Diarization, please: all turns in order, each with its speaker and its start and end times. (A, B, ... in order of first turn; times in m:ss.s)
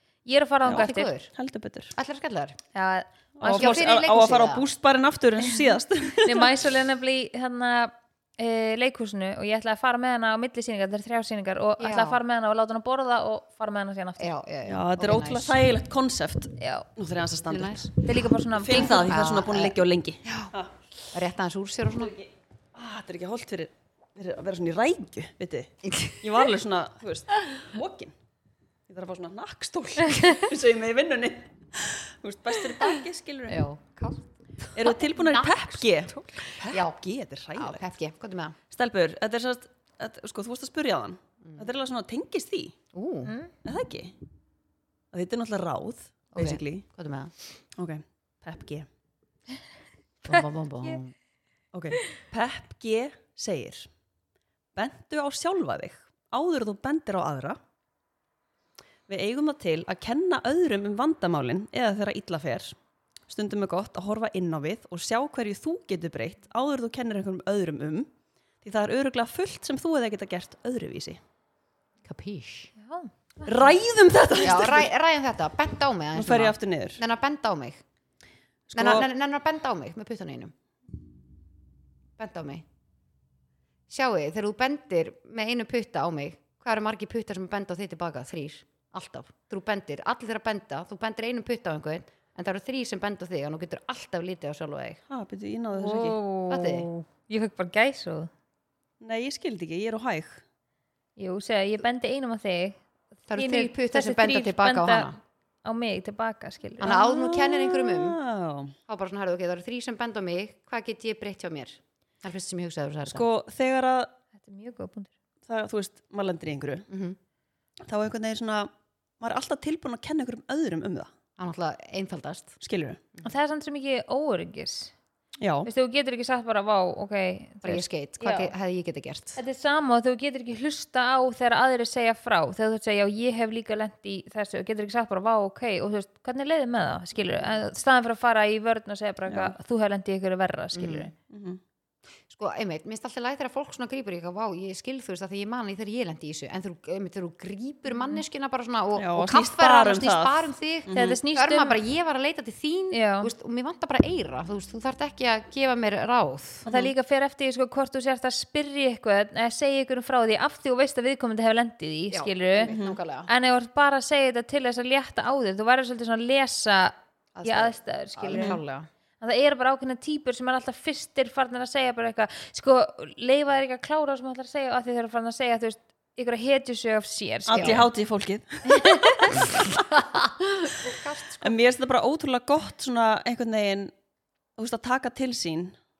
0:00.2-0:01.1 A
0:00.6-0:01.3 B
0:00.7-0:01.9 C
0:01.9-0:02.6 B
0:02.7-0:04.0 A
0:03.4-0:06.6 C
0:03.5-0:04.7 B
0:06.2-0:14.3 A
0:11.8-0:12.2 B
0:14.2-0:15.6 B
0:14.6-0:17.9 C
0:16.6-0:16.9 A
0:17.4-0:17.9 B
0:18.0-0:19.1 A
0:18.6-0:20.7 C
0:18.7-0:20.5 B
0:21.1-0:22.1 B
0:21.9-0:28.1 C
0:25.8-0:26.5 B
0:28.9-0:33.6 C
0:33.5-0:37.0 B
0:34.7-0:37.8 C
0:37.5-0:38.6 B
0:38.7-0:42.7 C
0:41.4-0:41.7 B
0:42.9-0:43.3 B
0:43.2-0:43.5 A
0:43.6-0:44.1 C
0:45.1-0:46.8 C
0:46.3-0:47.3 B
0:47.8-0:48.8 C
0:50.2-0:51.1 B
0:51.7-0:53.9 C
0:54.7-0:57.6 C
0:59.1-1:02.8 C
1:03.3-1:08.1 C
1:08.6-1:11.2 C
1:12.0-1:12.7 B
1:12.8-1:13.7 A
1:13.4-1:14.9 C
1:14.4-1:17.8 B
1:16.1-1:17.0 C
1:18.7-1:19.0 C
1:18.7-1:20.5 B
1:22.2-1:22.6 B
1:23.9-1:35.0 B
1:35.1-1:36.2 C
1:35.7-1:38.3 A
1:36.5-1:36.9 B
1:39.0-1:40.4 C
1:41.2-1:45.1 A
1:43.3-1:45.2 B
1:45.6-1:46.9 A
1:46.8-1:48.2 B
1:46.8-1:48.7 C
1:48.9-1:53.3 B
1:53.1-1:54.1 C
1:54.3-1:55.1 A
1:55.5-1:56.8 C
1:56.9-1:57.2 B
1:57.8-2:01.1 C
2:01.4-2:02.6 B
2:02.6-2:03.0 C
2:03.2-2:04.9 A
2:05.4-2:05.7 C
2:05.6-2:08.5 A
2:07.6-2:09.4 B
2:09.4-2:21.1 A
2:19.3-2:19.5 C
2:20.7-2:21.1 B
2:21.3-2:21.6 C
2:22.3-2:36.7 B
2:27.9-2:28.2 A
2:28.9-2:31.2 C
2:30.9-2:31.8 A
2:32.9-2:33.3 A
2:36.6-2:36.9 C
2:36.7-2:42.7 A
2:42.1-2:43.3 B
2:42.7-2:43.0 C
2:43.3-2:48.6 A
2:47.3-2:48.9 B
2:48.3-2:48.6 C
2:49.2-2:57.9 A
2:57.5-2:59.6 C
2:57.5-2:57.9 B
2:58.7-2:59.4 A
2:59.3-3:01.6 B
3:01.4-3:03.9 C
3:04.6-3:05.8 C